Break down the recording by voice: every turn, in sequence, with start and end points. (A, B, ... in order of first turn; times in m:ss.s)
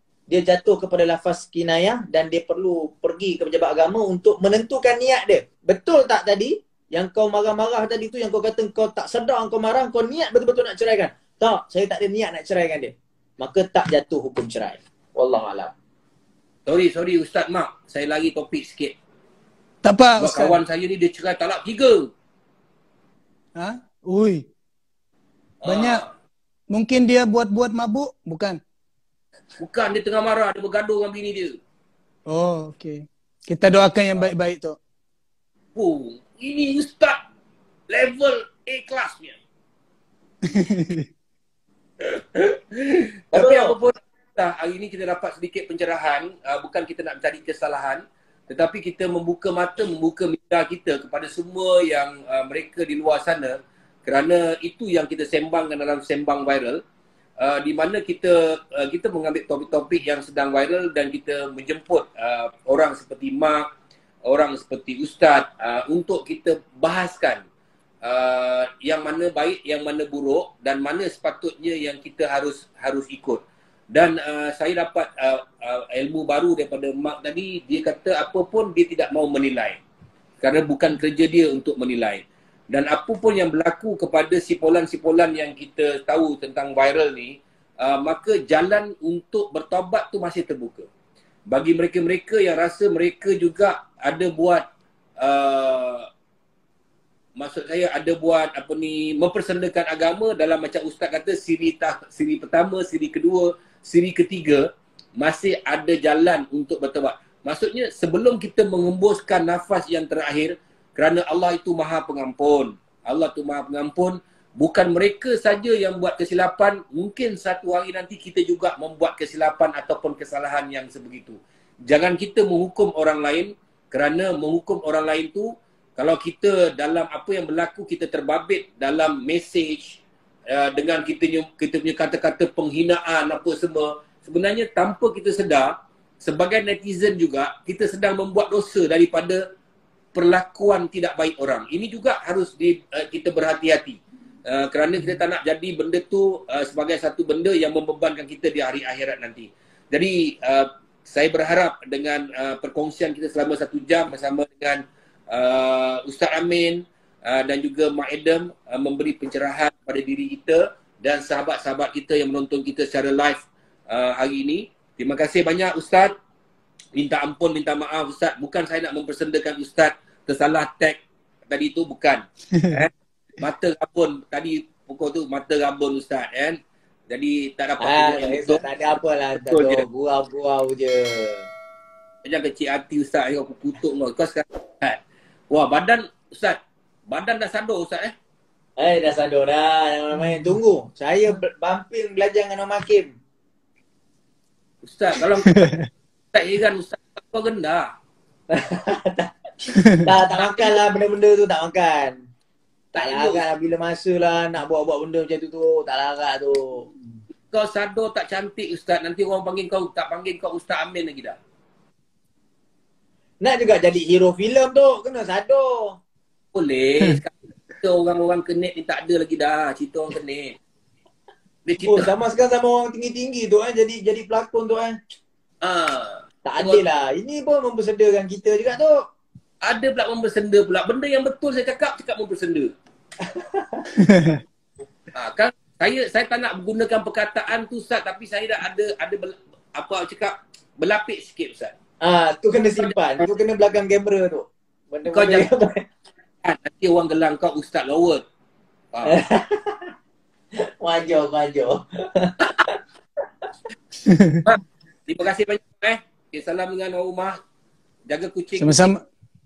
0:00.3-0:15.7 A
0:16.7-0:19.0 B
0:19.8-0:20.6 C
0:20.2-0:22.1 B
0:23.6-0:24.5 C
0:25.6-0:26.1 B
0:25.7-0:26.0 C
0:26.7-0:28.6 C
0:29.6-0:31.6 B
0:32.3-0:34.8 C
0:35.8-0:37.2 B
0:37.9-0:39.4 B
0:40.5-0:41.1 C
0:42.1-0:56.8 B
0:43.3-0:43.8 A
0:57.4-1:03.7 B
1:04.3-1:07.4 B
1:08.0-1:13.4 B
1:13.9-1:19.8 B
1:20.4-1:30.9 B
1:31.5-1:34.6 B
1:35.2-1:36.1 B
1:37.4-2:19.4 B
2:20.1-2:46.1 B
2:47.0-2:58.6 B
2:57.8-3:01.5 A
2:59.4-2:59.8 B
3:02.2-3:05.0 B
3:05.5-3:08.1 B
3:08.8-3:13.1 A
3:14.8-3:15.6 B
3:15.5-3:15.9 C
3:16.3-3:17.9 B
3:18.5-3:19.3 A
3:19.8-3:20.0 C
3:20.0-3:22.2 A
3:20.4-3:20.8 B
3:22.9-3:23.4 B
3:23.0-3:26.9 A
3:27.5-3:31.4 B
3:33.4-3:36.0 A
3:36.5-3:40.6 B
3:41.7-3:42.1 B
3:41.8-3:45.0 A
3:45.6-3:46.8 B
3:46.4-3:49.0 A
3:49.6-3:52.7 B
3:53.2-3:53.9 A
3:54.0-3:54.4 C
3:55.2-4:01.7 B
4:02.0-4:05.8 A
4:02.8-4:03.2 B
4:05.1-4:05.5 B
4:06.4-4:08.2 B
4:08.9-4:09.2 B
4:09.1-4:09.9 A
4:10.6-4:12.8 A
4:14.0-4:14.4 C
4:14.4-4:17.4 B
4:18.1-4:18.9 B
4:18.6-4:19.0 C